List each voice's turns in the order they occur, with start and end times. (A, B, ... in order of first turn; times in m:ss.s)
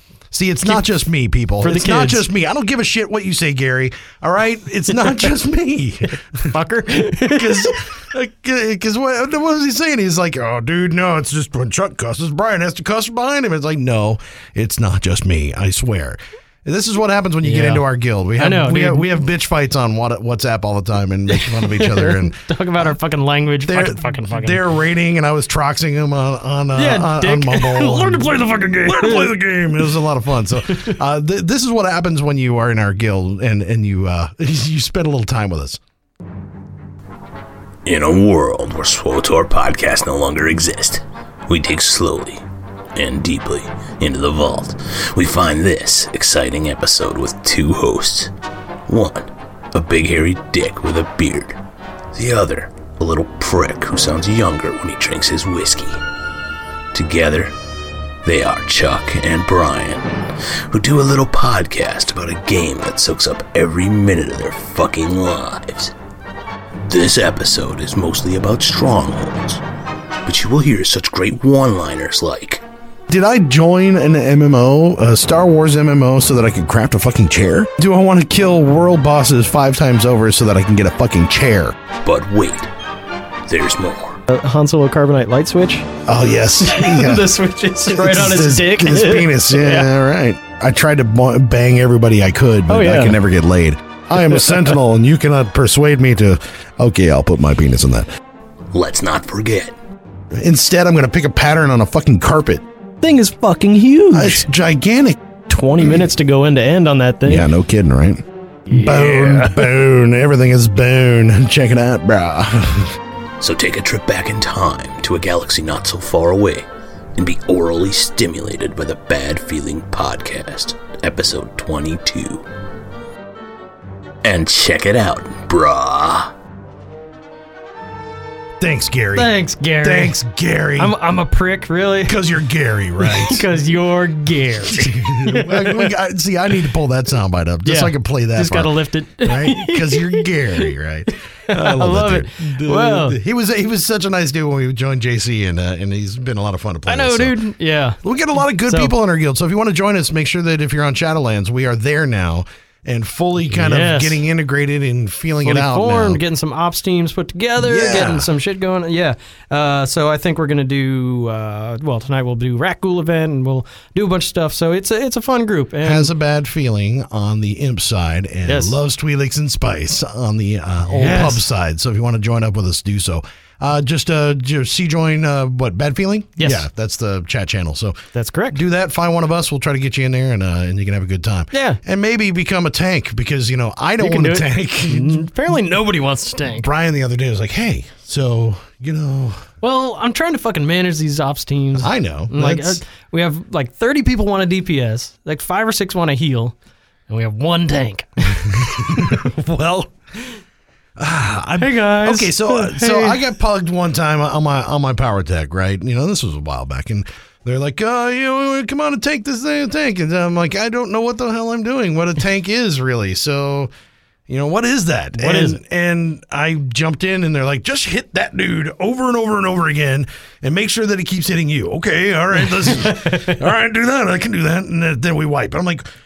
0:00.3-0:06.6 A
0:00.6-0:00.9 B
0:01.6-0:02.2 B
0:04.9-0:05.3 B
0:06.5-0:07.8 B
0:07.1-0:22.4 A
0:17.4-0:17.8 B
0:18.4-0:19.1 B
0:21.3-0:24.6 B
0:23.6-0:35.8 A
0:26.8-0:29.4 B
0:30.7-0:31.0 B
0:37.8-0:42.4 C
0:43.0-0:48.3 C
0:48.9-0:51.6 C
0:52.1-0:56.0 C
0:56.9-0:57.5 C
0:58.2-1:00.1 C
1:00.7-1:05.9 C
1:06.9-1:09.6 C
1:10.3-1:12.6 C
1:13.1-1:21.8 A
1:22.0-1:22.7 C
1:23.5-1:24.2 C
1:24.3-1:25.9 B
1:26.0-1:38.1 A
1:26.6-1:29.9 B
1:32.7-1:33.2 B
1:34.2-1:34.7 B
1:38.7-1:39.8 C
1:40.3-1:42.6 A
1:43.0-1:44.5 B
1:44.1-1:45.2 A
1:45.5-1:47.5 B
1:47.2-1:53.0 A
1:48.7-1:49.7 B
1:53.4-1:56.6 C
1:57.2-2:02.4 C
2:04.2-2:06.3 C
2:08.6-2:11.0 A
2:09.2-2:10.2 B
2:10.8-2:12.2 B
2:12.0-2:13.4 A
2:13.0-2:15.9 B
2:14.7-2:27.4 A
2:17.6-2:20.7 B
2:21.5-2:23.2 B
2:26.9-2:28.0 B
2:28.0-2:36.2 A
2:28.6-2:28.9 B
2:33.5-2:34.2 B
2:35.4-2:46.1 B
2:37.6-2:38.3 A
2:45.8-2:58.0 A
2:48.5-2:48.8 B
2:50.9-2:51.4 B
2:56.4-2:56.6 B
2:58.1-2:58.6 B
2:58.5-3:05.3 A
3:01.5-3:01.8 B
3:04.0-3:06.7 B
3:06.4-3:09.5 A
3:09.6-3:16.6 B
3:11.8-3:12.8 A
3:17.1-3:19.2 B
3:18.4-3:19.9 A
3:21.0-3:33.7 A
3:21.6-3:23.2 B
3:34.3-3:45.8 A
3:35.2-3:35.6 B
3:42.5-3:43.4 B